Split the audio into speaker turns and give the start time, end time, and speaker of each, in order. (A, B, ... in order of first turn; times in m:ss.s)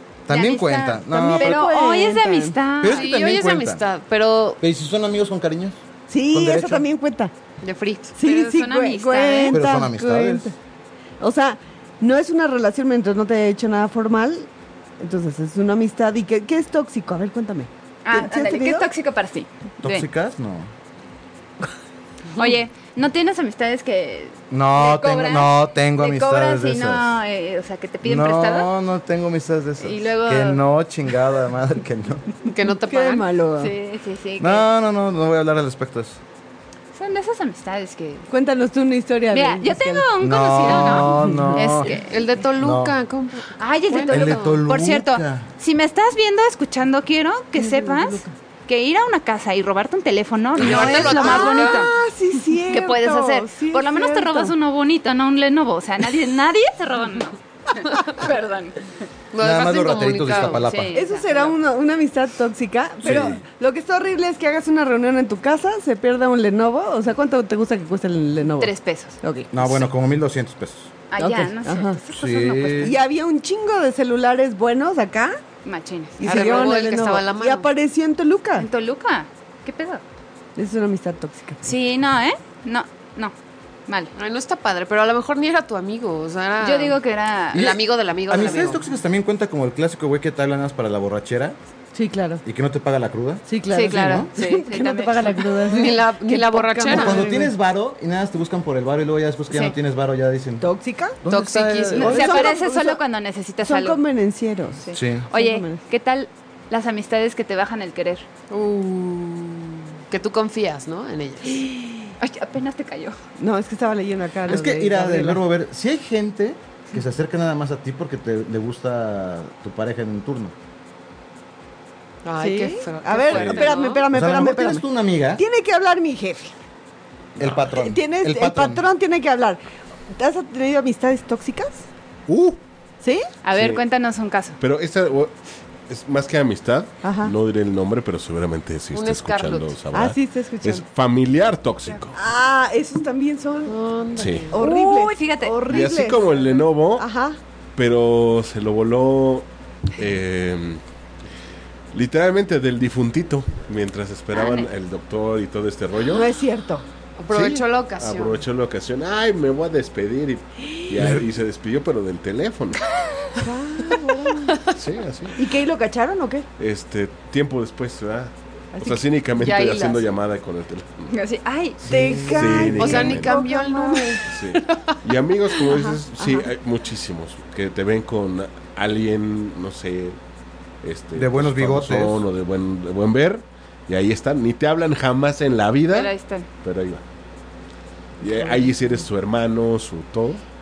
0:00.3-0:01.6 A
0:00.3-0:03.1 B
0:01.1-0:02.6 C
0:02.8-0:03.8 A
0:02.9-0:04.6 D
0:04.6-0:06.9 A
0:06.1-0:07.3 C
0:07.6-0:08.2 D
0:08.2-0:10.5 C
0:08.2-0:09.7 B
0:09.5-0:10.5 A
0:11.2-0:14.5 C
0:15.0-0:18.9 C
0:18.0-0:20.1 B
0:19.8-0:20.7 A
0:22.4-0:28.7 B
0:24.5-0:27.2 A
0:28.0-0:32.3 A
0:29.8-0:30.6 B
0:32.5-0:33.2 D
0:32.9-0:33.7 C
0:33.6-0:34.7 B
0:34.4-0:36.2 A
0:36.9-0:38.3 B
0:38.3-0:40.1 C
0:39.3-0:42.3 B
0:40.2-0:41.9 A
0:40.7-0:41.6 C
0:42.1-0:44.6 D
0:42.6-0:43.0 A
0:43.6-0:51.9 B
0:44.1-0:45.5 A
0:47.6-0:48.3 C
0:50.6-0:51.9 D
0:50.6-0:54.6 C
0:52.7-0:58.9 B
0:59.3-1:00.6 D
0:59.4-1:01.0 A
1:00.5-1:01.5 B
1:00.9-1:09.5 C
1:03.0-1:03.4 A
1:08.6-1:09.8 B
1:09.5-1:10.9 A
1:11.1-1:13.0 B
1:11.2-1:12.0 C
1:12.1-1:12.9 A
1:12.8-1:15.4 C
1:15.6-1:16.8 B
1:16.2-1:18.7 C
1:16.2-1:17.7 D
1:18.6-1:20.0 B
1:20.6-1:21.6 C
1:21.6-1:23.3 B
1:23.9-1:24.1 B
1:24.2-1:27.0 D
1:26.6-1:27.7 B
1:27.5-1:28.8 D
1:27.6-1:31.6 A
1:31.9-1:32.4 C
1:32.4-1:34.3 A
1:33.5-1:37.5 C
1:33.7-1:35.8 B
1:35.7-1:37.2 D
1:36.9-1:40.7 A
1:40.6-1:41.2 C
1:41.2-1:42.5 A
1:41.3-1:42.4 D
1:42.0-1:44.0 B
1:42.0-1:43.0 C
1:43.6-1:45.8 C
1:44.8-1:48.3 B
1:44.9-1:45.2 A
1:48.5-1:51.6 D
1:52.2-1:53.2 B
1:53.4-1:55.4 C
1:54.5-2:00.5 A
2:02.2-2:04.0 D
2:02.4-2:04.8 C
2:03.3-2:03.6 E
2:04.1-2:05.4 A
2:05.4-2:06.5 C
2:07.4-2:08.9 A
2:07.8-2:09.6 C
2:10.1-2:11.9 C
2:12.3-2:12.6 E
2:13.0-2:13.3 C
2:13.4-2:14.6 B
2:13.5-2:13.8 E
2:14.6-2:15.4 E
2:15.9-2:22.2 E
2:17.0-2:17.4 C
2:18.9-2:19.8 D
2:19.9-2:20.8 C
2:22.1-2:23.8 C
2:23.7-2:24.6 D
2:24.2-2:24.6 E
2:24.5-2:27.4 C
2:24.6-2:25.8 B
2:25.6-2:27.1 E
2:27.8-2:30.8 E
2:31.9-2:36.3 E
2:34.3-2:34.7 B
2:36.1-2:36.8 C
2:37.2-2:38.4 D
2:37.3-2:42.8 E
2:41.0-2:41.2 A
2:43.4-2:44.6 C
2:44.8-2:45.4 E
2:45.4-2:46.5 C
2:46.6-2:51.1 E
2:48.7-2:49.0 C
2:49.4-2:50.1 D
2:51.1-2:51.8 B
2:51.8-2:53.4 E
2:51.9-2:54.2 C
2:52.8-2:55.0 D
2:54.3-3:00.2 E
2:55.7-2:56.5 C
3:00.8-3:07.0 E
3:01.2-3:02.2 A
3:05.9-3:06.5 B
3:08.2-3:10.4 E